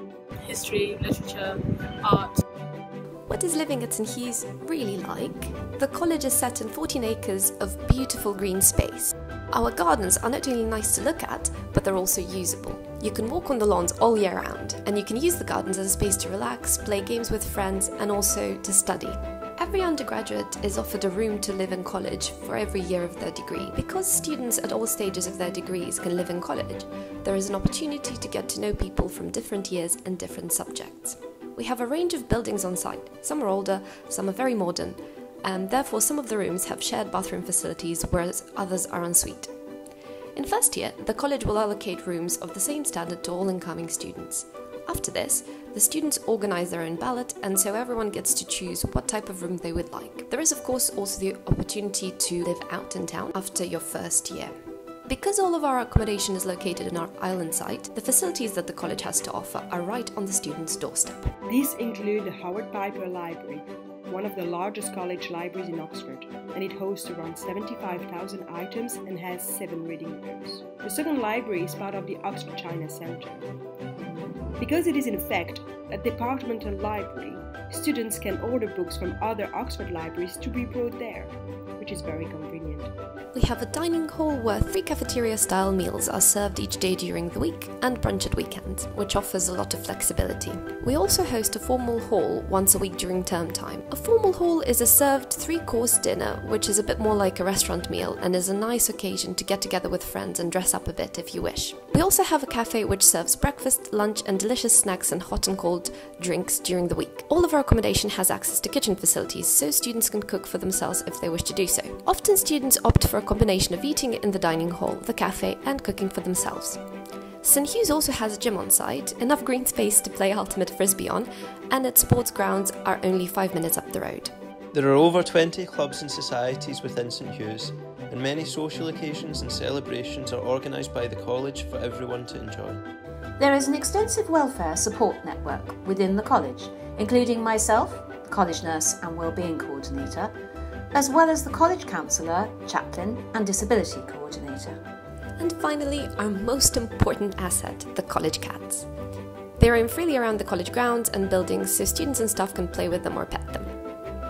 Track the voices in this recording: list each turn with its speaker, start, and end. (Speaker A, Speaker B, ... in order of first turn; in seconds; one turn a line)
Speaker A: 0.4-2.4
Speaker B: 3.3-39.5
Speaker B: 40.3-54.5
Speaker B: 55.1-61.3
Speaker C: 61.5-73.5
Speaker C: 74.6-82.9
Speaker B: 83.3-116.8
Speaker B: 117.4-124.3
Speaker D: 124.7-132.8
Speaker E: 133.4-140.3
Speaker E: 140.9-144.8
Speaker B: 145.4-148.9
Speaker B: 149.6-153.7